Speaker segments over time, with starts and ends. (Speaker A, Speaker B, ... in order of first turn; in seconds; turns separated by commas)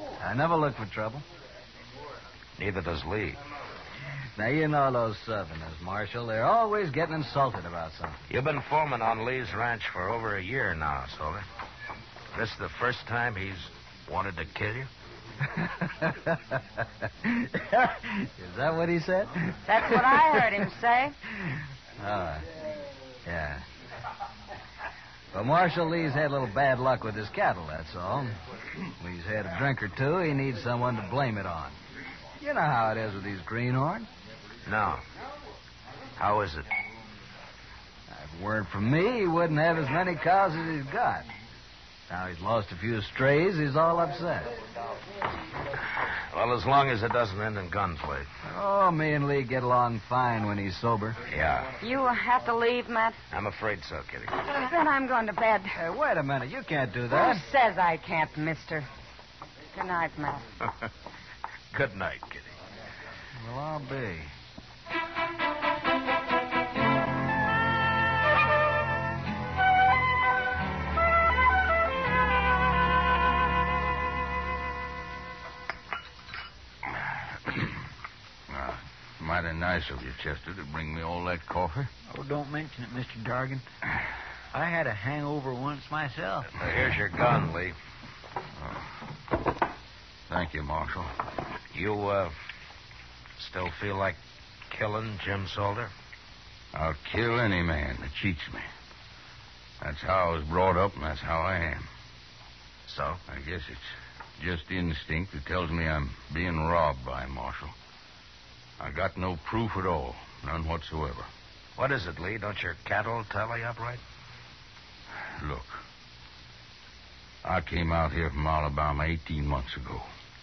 Speaker A: 0.2-1.2, Speaker B: 2.6-3.4, Speaker A: 4.4-8.2, Speaker B: 8.3-11.4, Speaker B: 12.3-14.9, Speaker A: 15.8-20.4, Speaker C: 19.7-21.1, Speaker A: 22.0-22.4, Speaker A: 23.2-23.6, Speaker A: 25.3-28.4, Speaker A: 29.0-31.8, Speaker A: 32.4-34.1, Speaker B: 34.6-35.0, Speaker B: 36.2-36.7, Speaker A: 38.1-41.2, Speaker A: 42.1-44.5, Speaker B: 46.1-48.3, Speaker A: 48.4-51.2, Speaker B: 51.3-51.7, Speaker C: 51.8-53.2, Speaker B: 53.3-54.4, Speaker C: 54.5-55.8, Speaker A: 55.7-57.4, Speaker C: 57.1-58.9, Speaker C: 59.7-60.5, Speaker B: 61.7-62.5, Speaker A: 63.4-64.3, Speaker D: 78.5-81.9, Speaker E: 82.1-83.6, Speaker E: 84.5-86.6, Speaker B: 86.5-87.8, Speaker D: 90.3-91.1, Speaker B: 91.7-92.3, Speaker B: 93.4-95.9, Speaker D: 96.7-98.7, Speaker D: 99.8-101.9, Speaker B: 102.8-103.2, Speaker D: 103.3-107.7, Speaker D: 108.8-111.3, Speaker B: 111.8-114.0, Speaker D: 115.3-115.8, Speaker D: 117.4-120.1